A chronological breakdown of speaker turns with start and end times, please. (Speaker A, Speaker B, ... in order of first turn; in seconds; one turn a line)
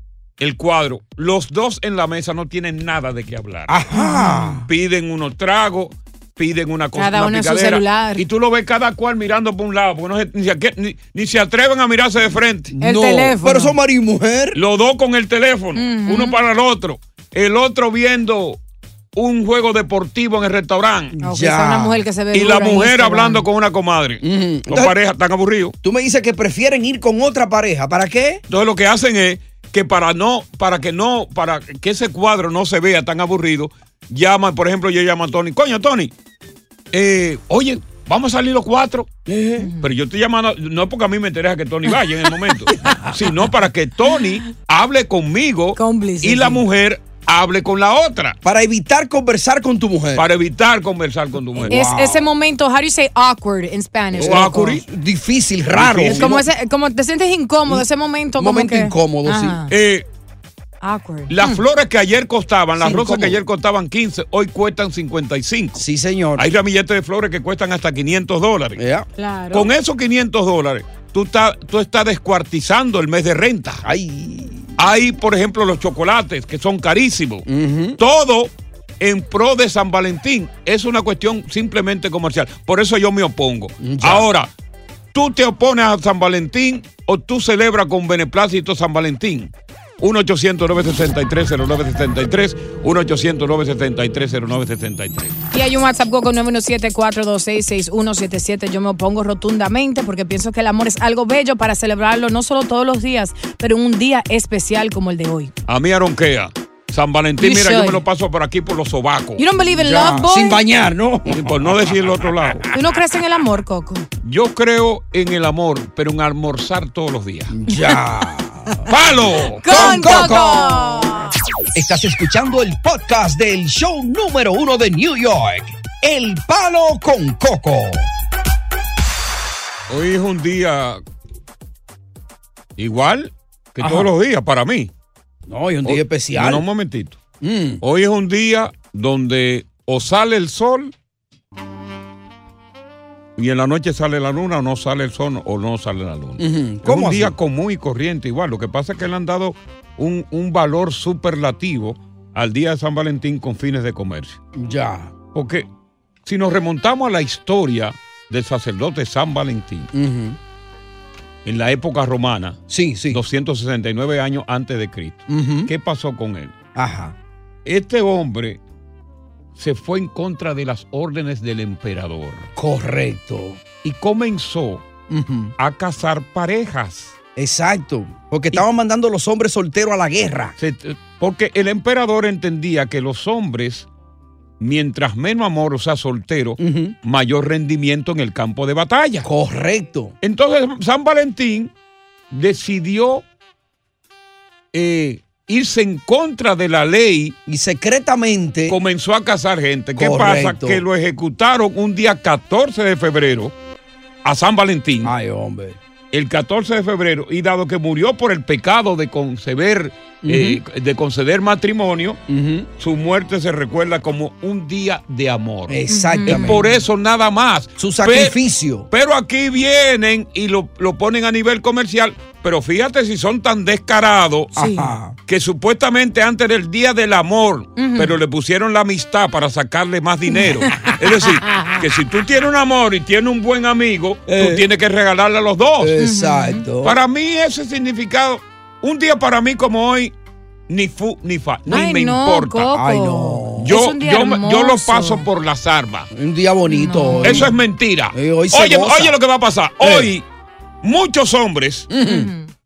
Speaker A: 0.4-3.7
Speaker B: 3.7-4.7
Speaker C: 3.9-4.6
Speaker A: 4.7-12.7
Speaker C: 7.0-8.2
Speaker B: 12.7-14.6
Speaker C: 12.8-13.7
Speaker A: 14.5-18.6
Speaker C: 15.8-16.4
Speaker A: 19.1-21.1
Speaker B: 21.1-22.0
Speaker C: 21.2-23.4
Speaker A: 22.3-25.7
Speaker B: 24.2-24.9
Speaker B: 25.8-28.4
Speaker A: 28.5-36.1
Speaker A: 36.9-39.2
Speaker B: 39.3-39.7
Speaker A: 39.8-48.4
Speaker C: 45.8-46.6
Speaker B: 48.4-50.2
Speaker A: 50.1-51.8
Speaker B: 51.5-52.3
Speaker C: 51.7-54.8
Speaker B: 54.1-56.4
Speaker A: 54.2-54.8
Speaker A: 55.7-56.4
Speaker C: 56.0-59.7
Speaker B: 58.4-59.6
Speaker A: 59.7-60.0
Speaker C: 60.8-61.6
Speaker A: 61.3-65.8
Speaker B: 62.8-63.4
Speaker B: 65.8-66.5
Speaker A: 66.4-68.8
Speaker B: 68.8-69.1
Speaker C: 69.2-69.7
Speaker A: 69.5-73.8
Speaker B: 73.8-74.7
Speaker A: 74.8-77.5
Speaker B: 77.5-78.0
Speaker A: 78.0-84.5
Speaker B: 83.8-84.3
Speaker A: 85.1-95.4
Speaker C: 95.5-105.5
Speaker A: 105.7-109.4
Speaker C: 107.4-108.0
Speaker C: 109.4-110.6
Speaker B: 109.7-112.6
Speaker A: 111.3-112.7
Speaker C: 112.7-114.1
Speaker A: 114.2-117.5
Speaker B: 117.5-118.9
Speaker A: 118.9-120.3
Speaker B: 119.6-121.1
Speaker C: 119.6-121.3
Speaker B: 121.7-128.1
Speaker A: 129.9-131.0
Speaker A: 132.8-134.9
Speaker B: 133.8-134.1
Speaker B: 135.5-136.6
Speaker A: 135.8-137.2
Speaker B: 137.4-137.8
Speaker A: 137.8-140.9
Speaker A: 143.4-154.4
Speaker B: 146.4-147.3
Speaker B: 154.6-155.1
Speaker A: 155.3-155.7
Speaker A: 156.2-159.9
Speaker B: 159.9-160.4
Speaker A: 161.4-166.5
Speaker B: 162.7-163.2
Speaker B: 165.3-165.7
Speaker B: 166.7-167.1
Speaker A: 167.6-168.6
Speaker A: 169.6-172.5
Speaker B: 172.6-173.6
Speaker A: 173.8-174.8
Speaker B: 175.1-175.5
Speaker A: 175.6-177.2
Speaker B: 177.3-180.5
Speaker A: 180.6-183.9
Speaker A: 184.6-189.3
Speaker B: 186.6-186.9
Speaker B: 189.2-190.1
Speaker A: 190.2-191.7
Speaker A: 192.3-193.2
Speaker A: 194.7-197.3
Speaker B: 197.5-198.8
Speaker A: 198.7-203.5
Speaker B: 199.9-200.8
Speaker A: 204.2-205.1
Speaker B: 205.0-205.8
Speaker A: 206.1-212.2
Speaker B: 210.2-210.6
Speaker B: 212.3-212.7
Speaker A: 212.8-218.4
Speaker B: 215.7-216.7
Speaker C: 215.9-216.6
Speaker B: 217.8-218.9
Speaker A: 218.9-224.5
Speaker B: 224.5-225.2
Speaker C: 224.6-224.9
Speaker A: 225.3-235.9
Speaker C: 227.8-228.1
Speaker C: 231.5-231.8
Speaker B: 234.3-234.6
Speaker B: 235.8-237.0
Speaker C: 236.0-236.6
Speaker A: 236.8-240.1
Speaker A: 240.7-242.7
Speaker C: 241.7-245.2
Speaker B: 242.7-243.7
Speaker A: 243.6-246.1
Speaker B: 246.1-247.5
Speaker C: 246.7-247.5
Speaker A: 247.2-250.2
Speaker B: 248.1-249.1
Speaker B: 249.8-250.1
Speaker A: 250.8-251.9
Speaker B: 251.9-252.3
Speaker C: 252.0-252.5